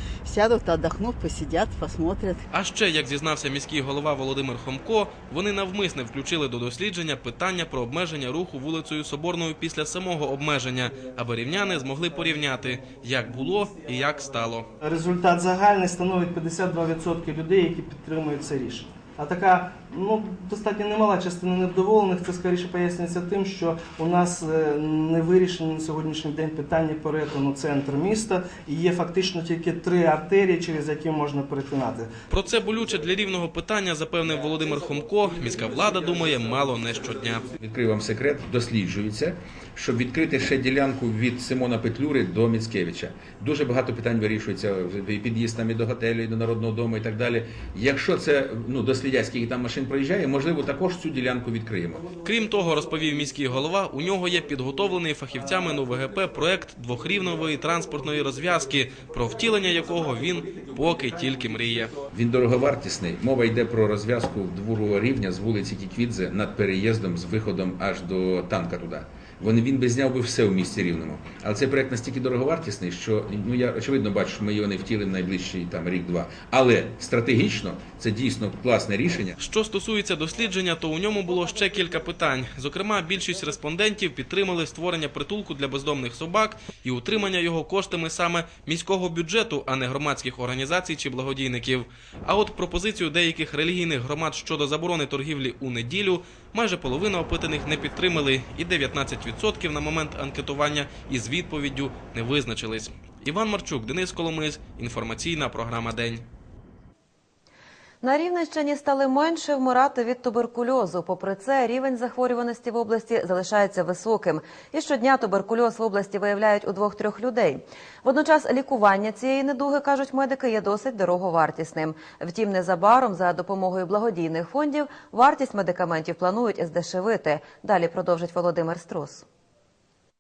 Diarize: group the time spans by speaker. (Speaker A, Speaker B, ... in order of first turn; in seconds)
Speaker A: 2.5-14.7, 32.3-37.5, 52.2-61.9, 79.4-106.2
Speaker B: 14.8-32.1
Speaker C: 37.6-52.1, 62.1-79.4
Speaker D: 108.0-129.2